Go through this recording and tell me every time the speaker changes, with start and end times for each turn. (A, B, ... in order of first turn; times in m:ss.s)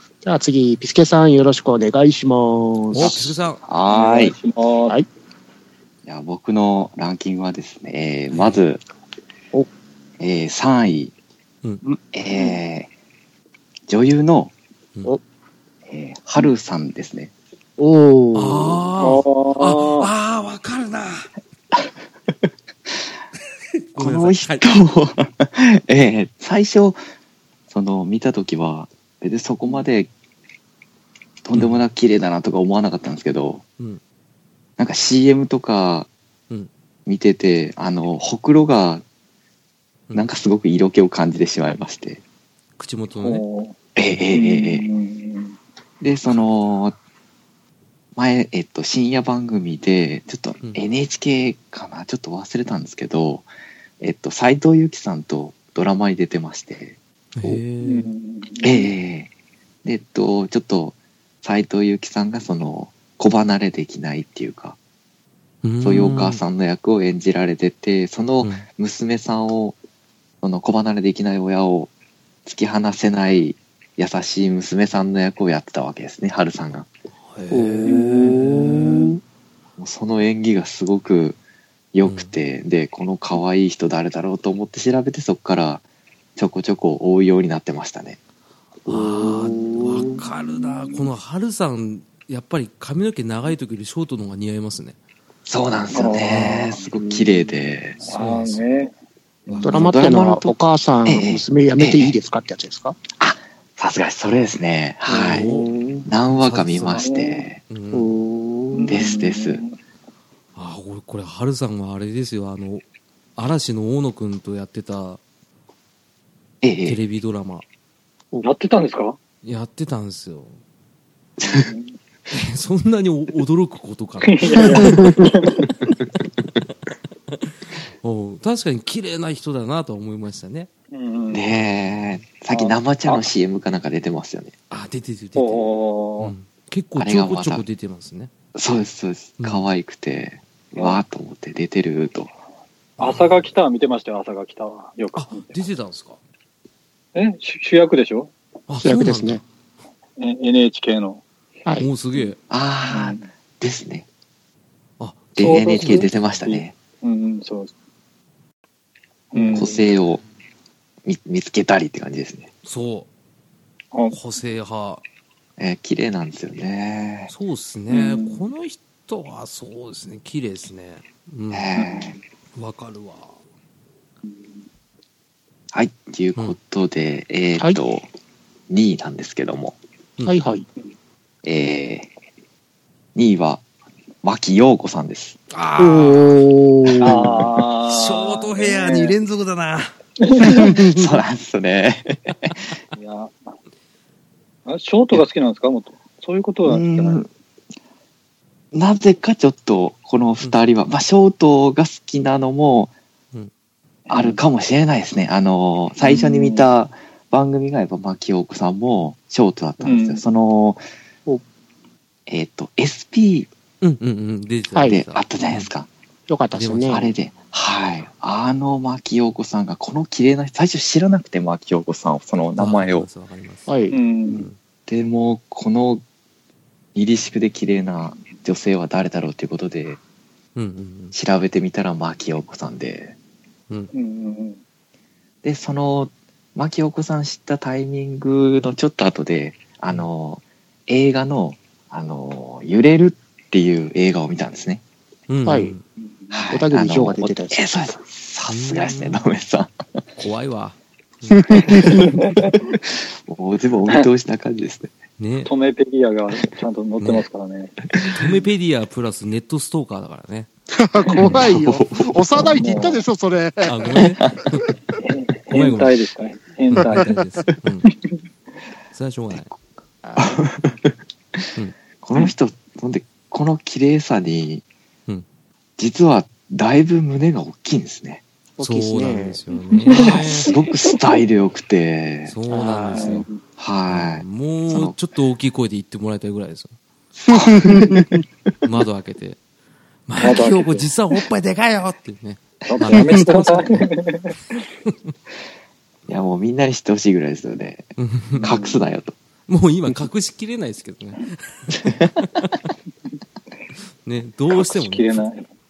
0:00.2-0:03.3 A
0:02.9-0:03.6 B
0:03.0-0:04.4 C
0:03.9-0:05.0 D
0:06.1-0:08.8 C
0:08.3-0:08.6 B
0:10.2-0:11.1 C
0:12.1-0:12.9 C
0:13.9-0:14.5 C
0:15.9-0:17.3 C
0:17.8-0:18.8 A
0:18.3-0:21.3 B
0:19.0-0:20.1 D
0:23.9-0:24.7 B
0:24.0-0:27.0 C
0:27.7-0:30.1 C
0:31.4-0:33.6 C
0:31.5-0:31.8 B
0:34.8-0:36.1 C
0:37.1-0:39.0 C
0:40.1-0:42.2 C
0:42.8-0:43.4 B
0:43.2-0:43.8 D
0:44.0-0:44.9 C
0:44.3-0:45.6 D
0:46.0-0:47.0 C
0:48.2-0:53.5 C
0:54.0-0:57.0 C
0:57.4-0:58.1 B
0:57.8-0:58.9 D
0:58.6-0:59.3 C
0:59.8-1:04.8 C
1:05.6-1:06.4 B
1:05.8-1:09.8 C
1:10.4-1:11.9 C
1:12.4-1:16.9 C
1:17.3-1:18.8 B
1:17.5-1:19.2 A
1:17.8-1:19.1 C
1:19.8-1:21.4 C
1:21.9-1:25.8 C
1:22.0-1:22.3 B
1:26.4-1:28.2 C
1:28.9-1:35.0 B
1:28.9-1:30.2 A
1:35.5-1:38.0 C
1:35.9-1:36.8 D
1:36.9-1:37.4 A
1:38.0-1:38.9 D
1:38.0-1:38.6 B
1:39.5-1:40.0 B
1:39.6-1:43.0 A
1:39.7-1:40.5 C
1:41.0-1:42.2 C
1:43.2-1:45.5 C
1:45.1-1:46.1 A
1:45.1-1:45.7 B
1:46.0-1:47.6 C
1:46.3-1:47.1 B
1:47.0-1:47.4 D
1:47.7-1:48.1 B
1:47.9-1:49.0 A
1:48.7-1:49.8 D
1:48.9-1:49.6 C
1:50.6-1:52.8 B
1:53.4-1:55.2 B
1:56.6-1:57.0 C
1:56.9-1:57.6 B
1:58.4-1:59.2 D
1:59.4-2:00.6 B
2:01.4-2:01.7 C
2:01.5-2:02.0 D
2:02.3-2:05.2 B
2:04.2-2:05.7 D
2:07.3-2:10.7 B
2:10.9-2:11.4 D
2:11.3-2:14.5 C
2:12.5-2:13.3 D
2:14.7-2:15.7 B
2:15.4-2:16.3 D
2:16.2-2:18.3 B
2:17.0-2:17.6 C
2:18.6-2:22.3 C
2:19.4-2:19.7 B
2:20.8-2:21.0 D
2:23.0-2:23.5 B
2:23.0-2:25.6 D
2:25.2-2:26.2 B
2:27.2-2:28.3 D
2:28.7-2:29.4 B
2:28.8-2:29.4 A
2:30.2-2:31.2 D
2:31.8-2:32.4 B
2:32.5-2:34.1 C
2:32.9-2:33.3 D
2:35.0-2:36.1 B
2:35.4-2:36.7 C
2:35.4-2:37.7 D
2:39.3-2:39.9 D
2:39.5-2:40.2 C
2:41.0-2:42.5 C
2:42.6-2:43.1 B
2:44.1-2:45.0 B
2:45.6-2:47.3 C
2:47.3-2:51.7 B
2:47.9-2:48.4 D
2:51.5-2:52.2 C
2:51.8-2:52.2 D
2:52.6-2:53.3 B
2:55.7-2:58.1 C
2:58.7-2:59.8 C
3:00.2-3:00.7 A
3:01.4-3:02.1 C
3:03.2-3:03.6 C
3:04.2-3:05.4 C
3:05.5-3:06.4 B
3:05.8-3:07.5 A
3:07.0-3:09.2 D
3:07.8-3:09.9 B
3:10.2-3:10.8 D
3:10.4-3:11.2 A
3:10.8-3:12.6 C
3:12.9-3:13.5 D
3:14.7-3:17.2 D
3:16.7-3:17.3 C
3:18.7-3:22.9 C
3:24.1-3:24.4 D
3:24.1-3:30.8 C
3:26.0-3:26.7 D
3:29.8-3:30.2 D
3:32.3-3:33.5 C
3:33.8-3:35.7 B
3:34.7-3:35.0 A
3:34.9-3:35.9 C
3:36.3-3:37.1 A
3:36.5-3:37.1 B
3:36.9-3:43.1 C
3:42.6-3:43.7 B
3:43.7-3:44.0 A
3:43.9-3:44.5 D
3:44.3-3:44.6 B
3:44.9-3:46.0 C
3:47.0-3:50.0 C
3:50.6-3:51.2 B
3:51.1-3:53.2 C
3:53.9-3:54.6 D
3:55.4-4:04.8 C
4:05.3-4:05.8 B
4:05.4-4:05.7 A
4:06.3-4:09.7 C
4:06.5-4:07.6 A
4:08.5-4:09.3 B
4:10.2-4:12.1 B
4:11.4-4:12.0 A
4:11.6-4:14.9 C
4:11.8-4:12.5 D
4:15.2-4:15.5 B
4:15.4-4:17.9 D
4:17.0-4:17.3 B
4:17.9-4:18.2 C
4:18.1-4:20.5 B
4:20.7-4:24.0 A
4:21.1-4:21.3 D
4:21.2-4:22.8 C
4:22.5-4:23.0 D
4:23.6-4:24.7 B
4:24.2-4:24.5 C
4:25.0-4:27.2 D
4:25.5-4:25.9 B
4:26.7-4:27.9 B
4:28.9-4:29.5 B
4:30.0-4:30.4 A
4:30.2-4:31.5 C
4:32.0-4:34.6 C
4:35.8-4:38.2 C
4:38.6-4:39.4 A
4:38.6-4:40.5 B
4:39.5-4:41.2 D
4:39.9-4:42.4 C
4:42.3-4:43.3 B
4:42.5-4:43.2 A
4:42.9-4:43.4 D
4:43.6-4:45.0 C
4:43.9-4:46.8 B
4:47.3-4:48.0 A
4:47.3-4:48.2 C
4:48.6-4:49.4 B
4:50.1-4:53.9 B
4:50.2-4:50.9 D
4:52.7-4:54.4 D
4:56.1-4:59.2 C
4:58.0-4:58.5 B
4:58.4-4:58.9 D
4:59.5-5:02.6 B
5:01.8-5:02.1 C
5:04.0-5:05.2 B
5:04.5-5:05.5 D